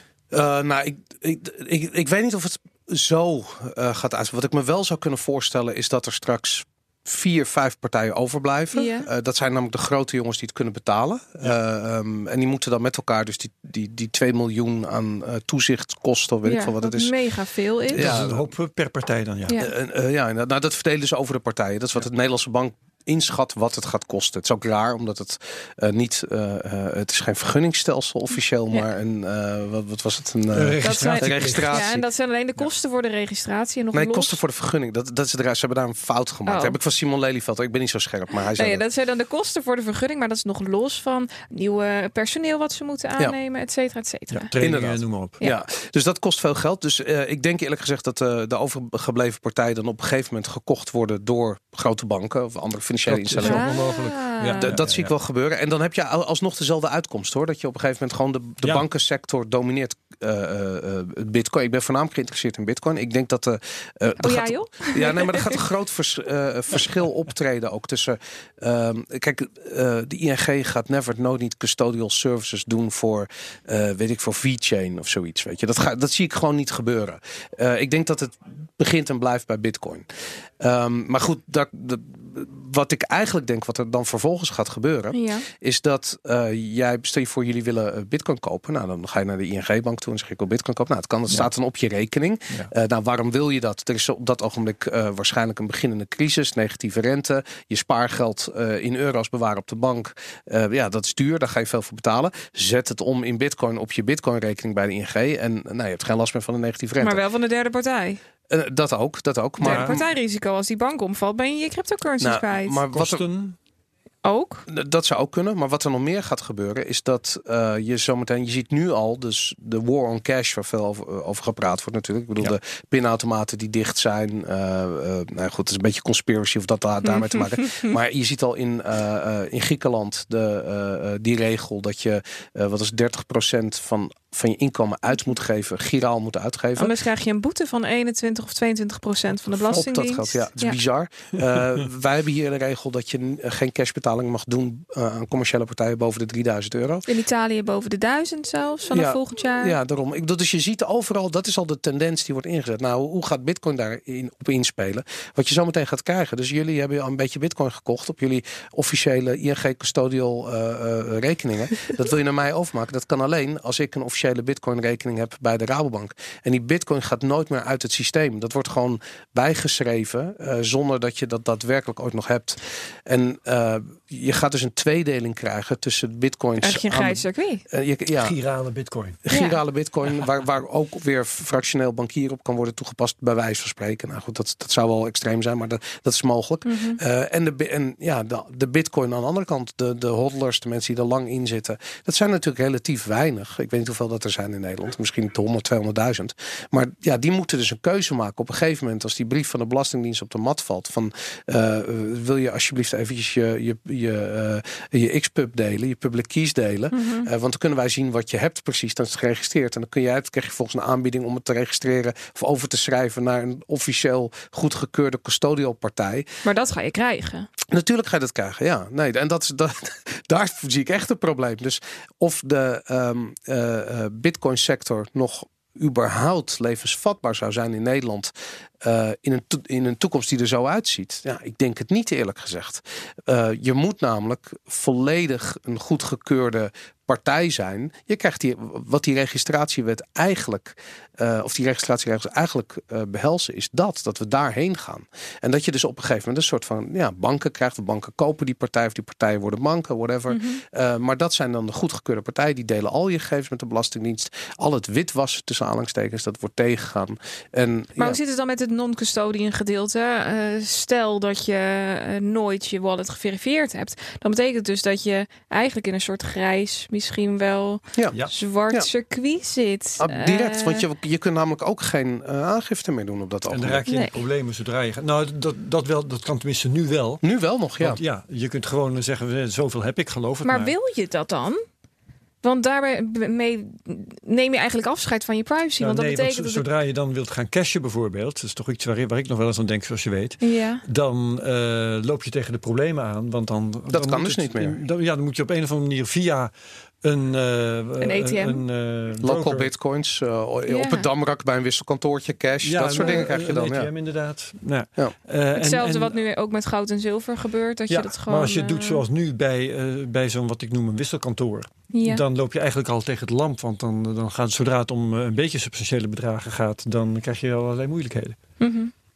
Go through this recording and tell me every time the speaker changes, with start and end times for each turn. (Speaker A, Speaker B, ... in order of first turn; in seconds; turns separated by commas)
Speaker A: 0.3-17.1, Speaker B: 8.7-9.1, Speaker B: 16.4-18.2, Speaker A: 17.9-18.4, Speaker C: 17.9-19.6, Speaker A: 19.6-32.0, Speaker C: 30.5-31.8, Speaker B: 30.8-34.4, Speaker A: 33.9-38.8, Speaker B: 36.5-36.8, Speaker B: 38.6-44.5, Speaker C: 44.3-45.4, Speaker A: 44.6-53.7, Speaker C: 53.0-55.1, Speaker B: 53.4-54.8, Speaker A: 54.6-80.0, Speaker B: 64.2-65.6, Speaker A: 80.6-107.2, Speaker B: 85.1-85.5, Speaker B: 107.0-108.2, Speaker A: 108.5-110.0, Speaker B: 109.6-112.8, Speaker C: 109.6-110.0, Speaker A: 112.2-113.2, Speaker C: 112.9-113.6, Speaker B: 114.2-114.6, Speaker A: 114.7-136.9, Speaker B: 127.4-127.9, Speaker B: 136.8-140.8, Speaker A: 139.7-147.0, Speaker B: 147.1-149.8, Speaker A: 148.9-178.3, Speaker B: 176.6-177.6, Speaker C: 178.1-179.2, Speaker A: 179.2-216.2, Speaker B: 179.3-179.6, Speaker B: 186.7-187.0, Speaker B: 206.9-207.3, Speaker B: 216.4-217.5, Speaker A: 217.7-258.2, Speaker B: 250.3-250.6, Speaker B: 258.0-270.8, Speaker A: 270.0-273.8, Speaker C: 273.5-277.2, Speaker B: 273.9-274.2, Speaker A: 277.2-278.0, Speaker C: 277.8-280.7, Speaker B: 280.4-281.6, Speaker B: 282.4-286.6, Speaker C: 285.8-296.5, Speaker B: 290.4-290.8, Speaker A: 293.9-294.8, Speaker C: 297.0-299.7, Speaker B: 298.0-298.6, Speaker A: 299.2-303.9, Speaker B: 300.7-301.1, Speaker C: 302.6-306.1, Speaker B: 305.5-309.0, Speaker C: 307.9-318.4, Speaker B: 311.9-312.2, Speaker B: 318.6-318.9